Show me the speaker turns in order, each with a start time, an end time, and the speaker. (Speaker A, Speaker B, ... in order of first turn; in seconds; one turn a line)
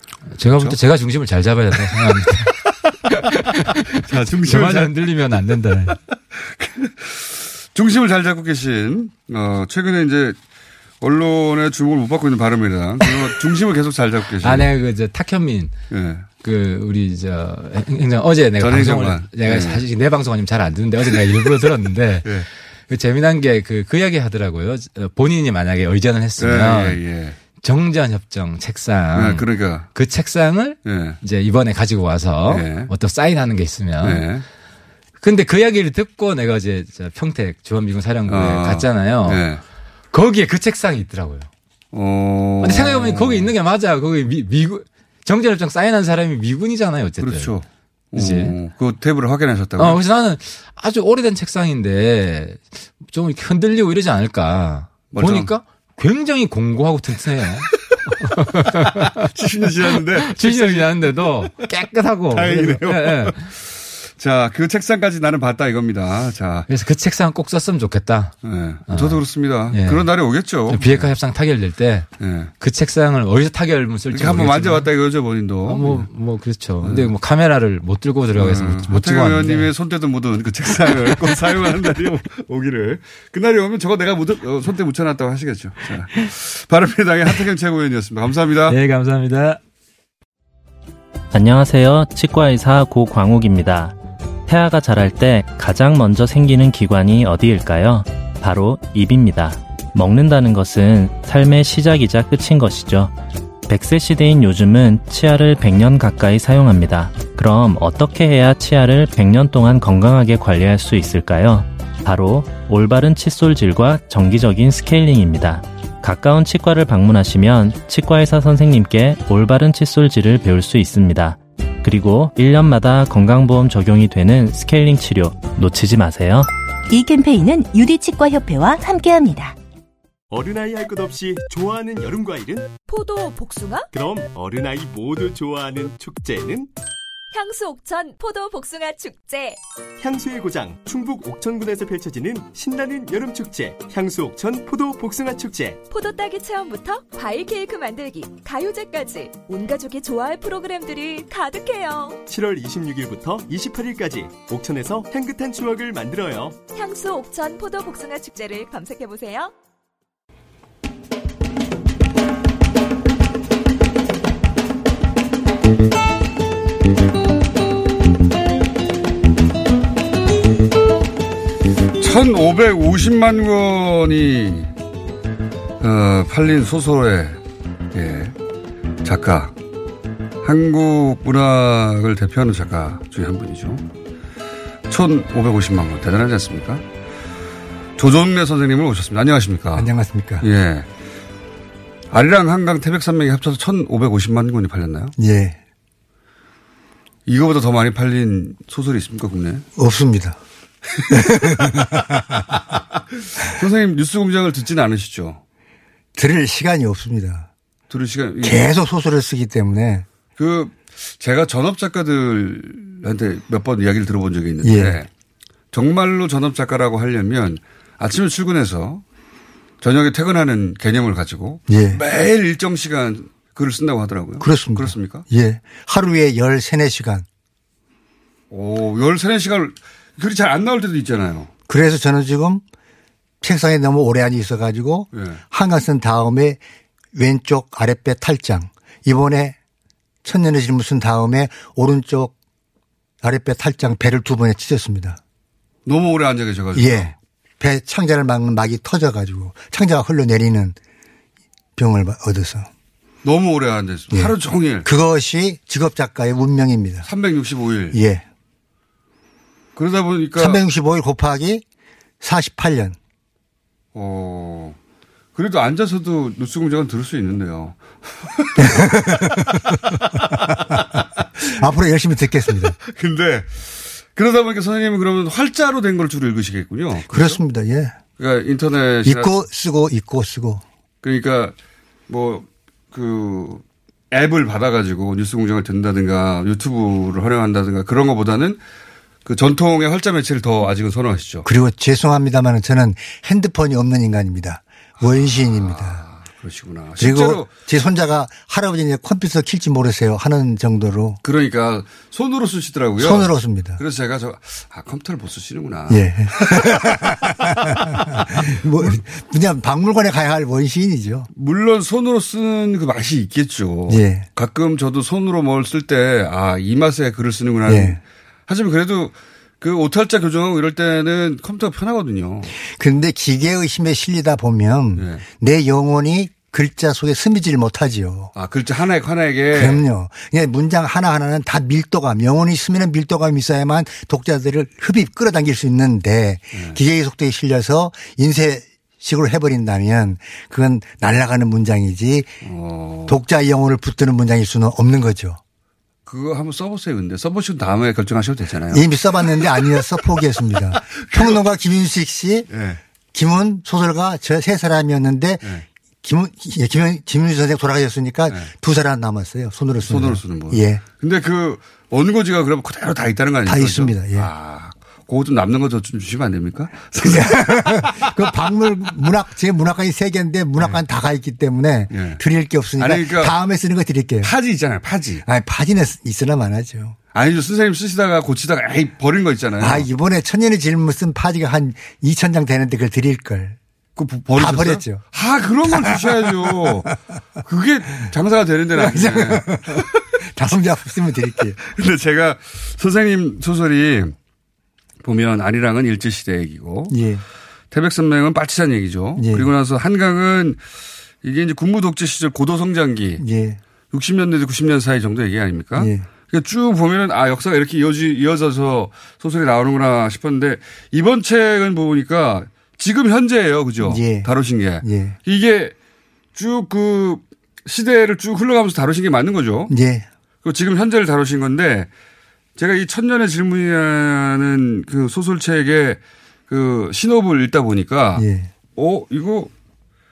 Speaker A: 0.3-6.0
Speaker B: 1.9-2.2
Speaker B: 3.9-5.0
Speaker B: 6.1-10.4
Speaker B: 11.0-14.7
Speaker A: 14.4-15.7
Speaker B: 15.9-16.3
Speaker A: 16.4-27.0
Speaker B: 18.6-19.8
Speaker B: 26.4-27.4
Speaker A: 27.6-34.3
Speaker B: 29.1-29.9
Speaker B: 30.8-31.2
Speaker B: 32.5-32.9
Speaker B: 34.0-34.5
Speaker A: 35.2-39.4
Speaker B: 38.3-39.6
Speaker A: 40.1-41.5
Speaker B: 41.9-43.5
Speaker A: 42.6-47.5
Speaker B: 47.2-50.0
Speaker A: 48.1-48.6
Speaker A: 49.8-59.3
Speaker B: 55.1-55.5
Speaker B: 59.0-61.7
Speaker A: 59.9-63.5
Speaker B: 62.3-66.7
Speaker A: 66.7-68.3
Speaker B: 68.4-71.1
Speaker A: 68.9-70.1
Speaker A: 70.6-72.1
Speaker B: 72.2-72.5
Speaker A: 72.6-74.9
Speaker B: 74.1-76.1
Speaker A: 75.7-79.7
Speaker B: 76.8-77.1
Speaker B: 78.3-88.8
Speaker A: 88.7-89.6
Speaker C: 91.3-94.0
Speaker C: 94.5-103.1
Speaker C: 103.7-126.5
Speaker D: 126.9-129.6
Speaker E: 130.3-132.7
Speaker F: 132.9-133.9
Speaker E: 133.9-136.7
Speaker F: 137.3-139.6
Speaker E: 140.0-145.8
Speaker F: 145.9-152.2
Speaker E: 152.3-156.6
Speaker F: 156.7-159.5
Speaker B: 172.0-174.7
Speaker B: 175.8-177.4
Speaker B: 177.9-178.3
Speaker B: 179.0-179.5
Speaker B: 180.4-183.9
Speaker B: 184.9-186.9
Speaker B: 188.0-189.9
Speaker G: 189.8-190.5
Speaker B: 190.4-190.9
Speaker B: 192.1-195.1
Speaker G: 195.2-195.6
Speaker B: 197.2-199.7
Speaker G: 199.8-200.4
Speaker G: 201.1-202.4
Speaker B: 203.4-205.4
Speaker G: 206.2-207.5
Speaker B: 207.9-208.7
Speaker G: 208.4-210.1
Speaker B: 210.4-215.1
Speaker G: 214.6-215.0
Speaker B: 215.7-219.0
Speaker B: 219.8-225.2
Speaker G: 221.7-222.0
Speaker G: 224.4-227.2
Speaker B: 228.5-231.5
Speaker G: 231.7-232.6
Speaker G: 233.4-236.6
Speaker B: 235.1-235.4
Speaker G: 237.1-239.6
Speaker G: 240.2-242.3
Speaker G: 243.2-245.2
Speaker B: 245.9-247.1
Speaker G: 246.7-250.8
Speaker G: 251.8-252.7
Speaker B: 253.2-254.9
Speaker G: 254.1-257.1
Speaker B: 257.0-258.0
Speaker G: 257.9-258.2
Speaker B: 259.8-260.6
Speaker G: 260.4-261.6
Speaker G: 262.2-262.9
Speaker B: 263.9-264.8
Speaker B: 265.4-268.9
Speaker G: 268.6-269.8
Speaker B: 269.6-271.2
Speaker G: 271.4-272.7
Speaker B: 272.8-277.4
Speaker G: 277.1-277.9
Speaker B: 278.2-279.3
Speaker G: 279.0-280.6
Speaker B: 281.0-281.5
Speaker B: 282.1-288.6
Speaker B: 289.2-291.4
Speaker G: 291.4-296.0
Speaker B: 295.1-297.5
Speaker G: 297.0-301.2
Speaker B: 301.2-306.0
Speaker G: 303.0-303.8
Speaker G: 305.9-311.3
Speaker B: 311.3-322.5
Speaker G: 313.9-314.3
Speaker G: 317.6-318.0
Speaker G: 322.6-328.3
Speaker B: 325.0-325.2
Speaker B: 328.4-329.8
Speaker G: 329.5-342.3
Speaker B: 342.4-343.2
Speaker G: 343.1-345.4
Speaker B: 346.1-348.9
Speaker G: 348.7-352.5
Speaker B: 351.1-351.4
Speaker B: 352.5-352.8
Speaker G: 353.1-360.8
Speaker B: 359.9-368.0
Speaker G: 363.4-364.3
Speaker G: 367.0-374.3
Speaker B: 371.9-372.2
Speaker B: 372.8-373.4
Speaker B: 374.2-375.2
Speaker G: 375.2-376.9
Speaker B: 377.1-379.9
Speaker G: 379.6-383.6
Speaker B: 383.9-386.9
Speaker G: 384.4-385.0
Speaker G: 385.6-386.9
Speaker B: 387.4-389.8
Speaker G: 388.7-391.6
Speaker B: 391.6-394.1
Speaker B: 395.0-396.9
Speaker G: 396.9-397.2
Speaker B: 397.7-400.6
Speaker G: 399.1-399.5
Speaker B: 401.2-403.2
Speaker G: 403.2-403.6
Speaker B: 403.9-415.7
Speaker G: 405.8-406.1
Speaker G: 413.8-415.1
Speaker B: 416.3-419.7
Speaker G: 419.7-420.1
Speaker B: 420.4-421.9
Speaker B: 422.6-428.2
Speaker G: 428.1-428.5
Speaker B: 428.8-429.5